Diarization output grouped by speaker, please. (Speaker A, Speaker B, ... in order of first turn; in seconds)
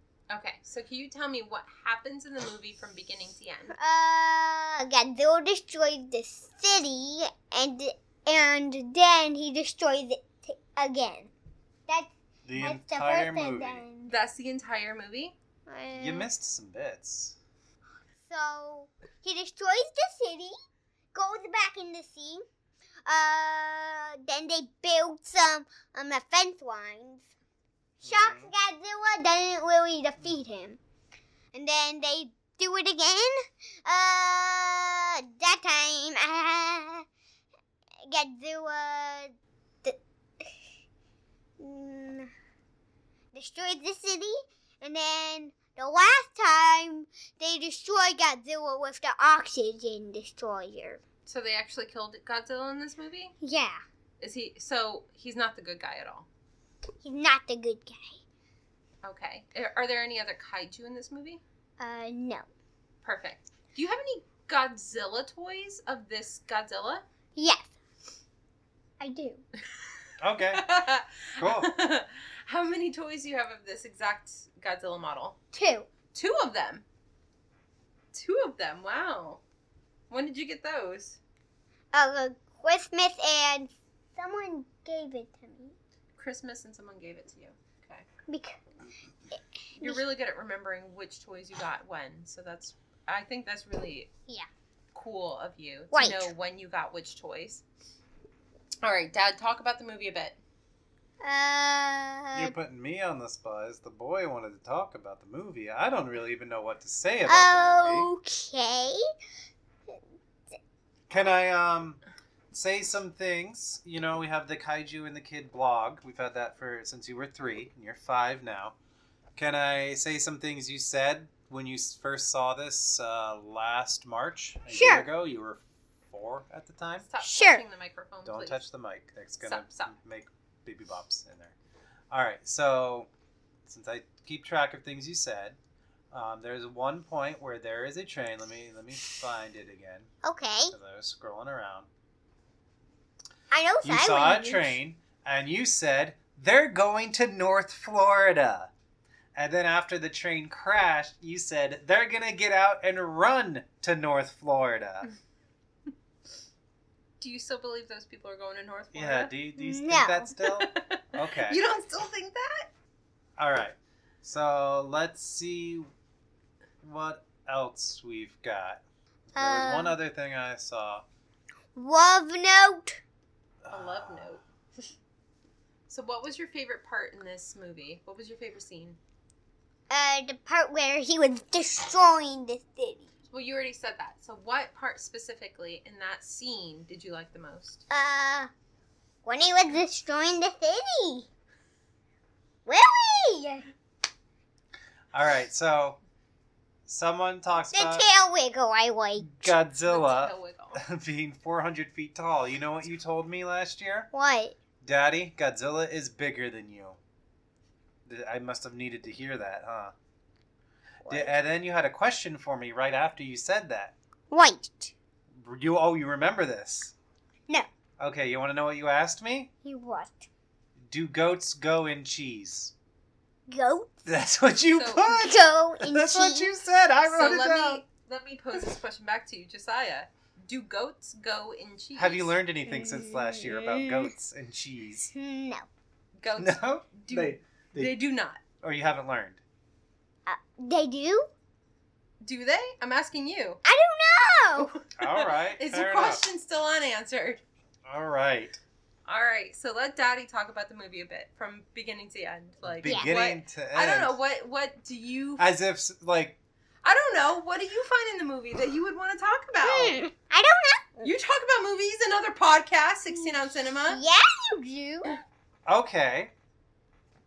Speaker A: 0.3-3.7, 14.1-15.3, 51.2-53.3, 54.2-56.3, 59.0-61.4, 63.0-67.0, 70.5-75.4, 76.1-76.8, 78.1-79.4, 80.1-81.2, 86.2-88.0, 89.8-94.1, 94.9-97.6, 98.8-100.4, 127.0-128.6, 129.4-129.9, 157.2-159.3, 160.4-162.7, 173.7-174.4, 175.9-179.0, 183.3-187.8, 199.8-200.8, 224.7-225.1, 227.0-232.4, 236.2-238.4, 242.2-243.6, 244.5-247.4, 249.1-255.5, 256.8-260.0, 261.0-264.0
Speaker B: 3.8-11.3, 11.9-14.1, 15.7-16.3, 18.3-20.5, 21.1-22.4, 23.1-27.2, 28.0-30.8, 31.5-37.0, 38.0-40.5, 41.6-42.3, 43.3-51.0, 53.4-53.8, 57.0-58.2, 61.8-62.5, 67.3-67.7, 69.0-69.4, 75.5-75.9, 81.9-85.7, 88.3-88.6, 89.3-90.0, 95.9-96.3, 101.2-102.5, 107.3-109.0, 124.7-125.1, 127.2-127.6, 140.2-140.7, 143.5-144.8, 159.6-160.3, 169.3-170.0, 171.8-173.0, 179.9-183.1, 187.9-188.5, 189.2-191.3, 192.7-193.7, 197.7-199.5, 204.1-204.6, 211.0-211.4, 214.3-214.9, 219.6-220.3, 223.5-223.9, 225.1-226.6, 232.7-234.1, 235.1-235.7, 240.2-241.3, 243.7-244.7, 252.8-253.1, 259.6-261.1, 263.9-265.1
Speaker C: 12.4-13.8, 15.9-17.4, 28.0-28.5, 70.2-70.6, 71.4-71.7, 102.3-108.1, 111.1-112.0, 112.5-118.8, 119.3-127.1, 128.2-131.5, 132.1-133.1, 133.7-135.6, 136.1-140.1, 140.7-141.9, 143.8-148.7, 149.3-155.1, 158.9-161.6, 163.4-165.9, 166.8-171.0, 173.6-174.4, 195.1-196.0, 196.9-198.1, 199.2-204.1, 204.8-207.0, 208.1-209.9, 211.1-213.9, 215.4-216.9, 218.0-219.5, 220.9-222.7, 224.1-227.8, 231.9-235.1, 236.4-237.9, 238.6-239.4, 245.0-246.2, 247.8-248.6, 252.6-254.2, 255.4-256.4, 265.7-266.3